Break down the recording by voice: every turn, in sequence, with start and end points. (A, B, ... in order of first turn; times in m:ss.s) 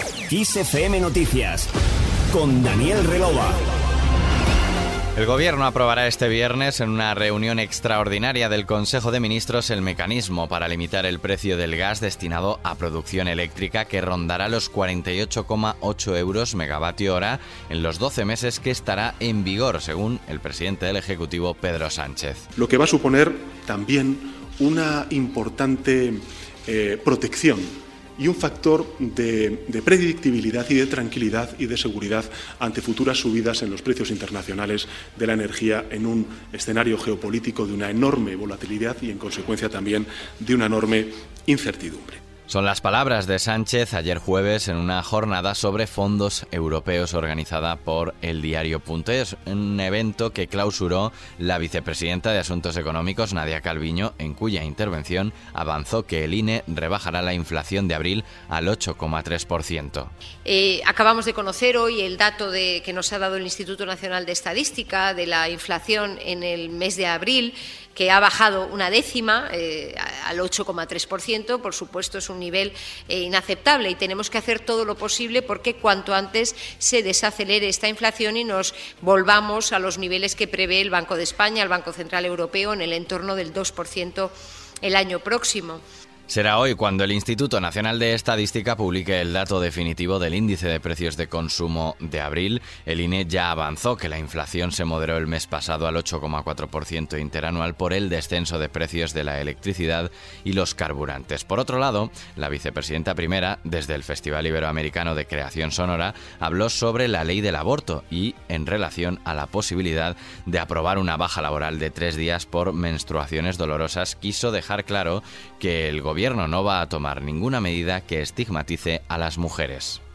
0:00.3-0:01.7 A
0:02.3-0:03.7 A
0:05.2-0:22.4 B
0:22.6-0:42.2 C
0:42.5-1:00.1 B
1:00.4-1:25.8 D
1:26.3-2:00.0 B